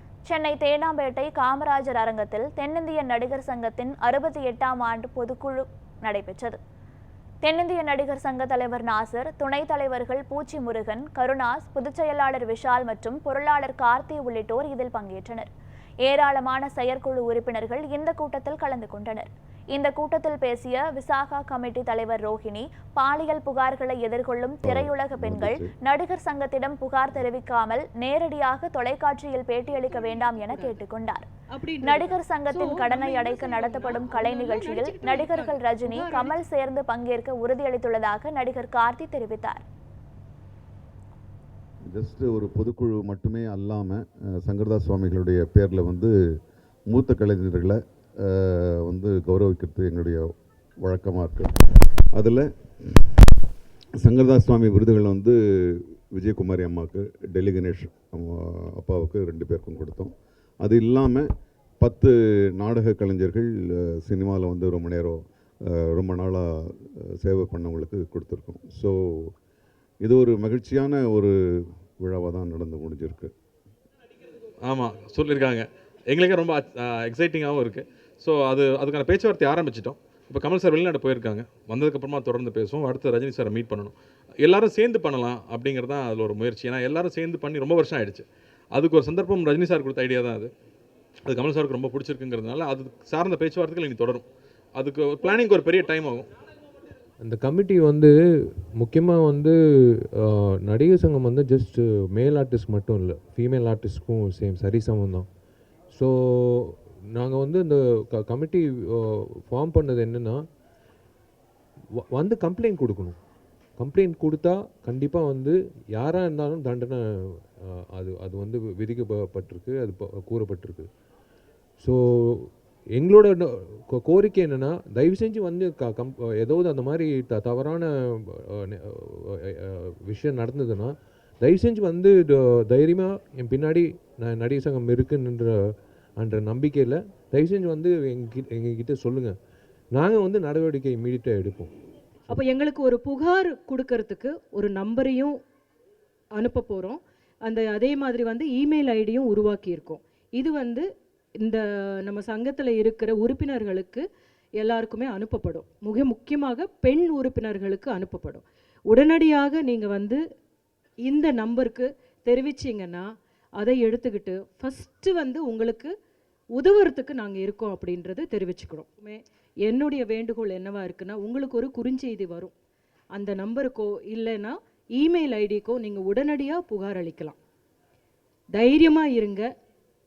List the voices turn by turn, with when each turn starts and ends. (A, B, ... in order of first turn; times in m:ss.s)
0:00.3-0:06.6 A
0:07.4-0:15.5 A
0:16.0-0:31.3 A
0:24.6-0:25.7 B
0:29.8-0:30.8 C
0:31.5-0:36.4 C
0:31.8-0:39.6 A
0:41.9-0:46.1 B
0:46.9-0:51.6 B
0:52.1-0:53.0 B
0:54.0-1:01.3 B
1:01.8-1:09.3 B
1:10.0-1:13.3 B
1:14.6-1:30.5 D
1:31.2-1:34.2 D
1:34.8-1:36.3 D
1:37.2-1:39.6 E
1:40.2-1:45.3 E
1:45.9-1:50.4 E
1:52.1-1:53.2 E
1:53.8-2:00.9 E
2:01.8-2:19.4 E
2:20.0-2:21.7 E
2:22.3-2:25.3 C
2:26.4-2:30.9 C
2:31.4-2:34.0 C
2:34.6-2:40.2 C
2:41.1-2:45.9 C
2:46.6-2:52.5 C
2:53.1-2:57.4 C
2:58.5-2:59.5 C